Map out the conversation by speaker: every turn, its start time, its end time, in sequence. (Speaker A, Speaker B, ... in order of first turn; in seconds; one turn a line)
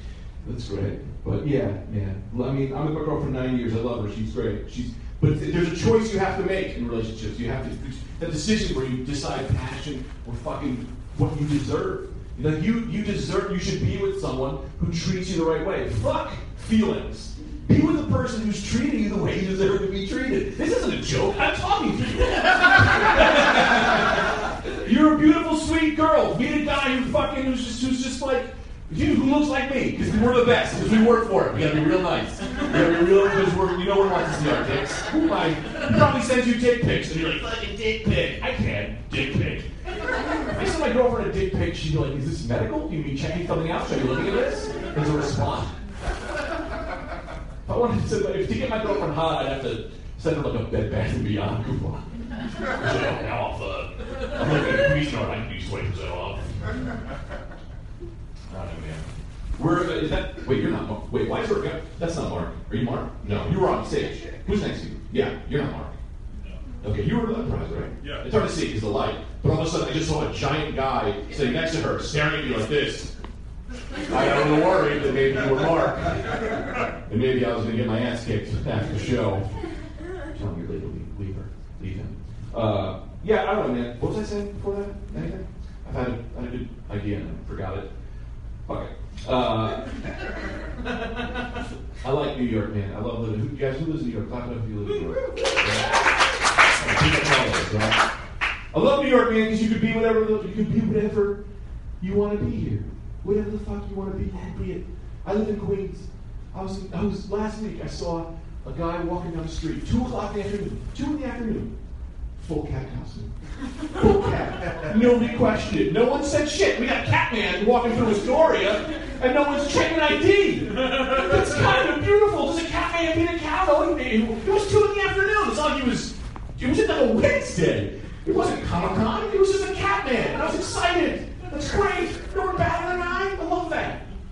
Speaker A: 0.4-39.7
Speaker A: 40.4-45.7
Speaker A: 47.6-56.9
Speaker A: 58.5-65.9
Speaker A: 66.7-73.1
Speaker A: 74.0-76.3
Speaker A: 77.1-79.5
Speaker A: 80.3-87.9
Speaker A: 88.7-89.9
Speaker A: 92.0-98.0
Speaker A: 98.7-101.4
Speaker A: 102.0-111.7
Speaker A: 112.4-113.3
Speaker A: 113.9-134.0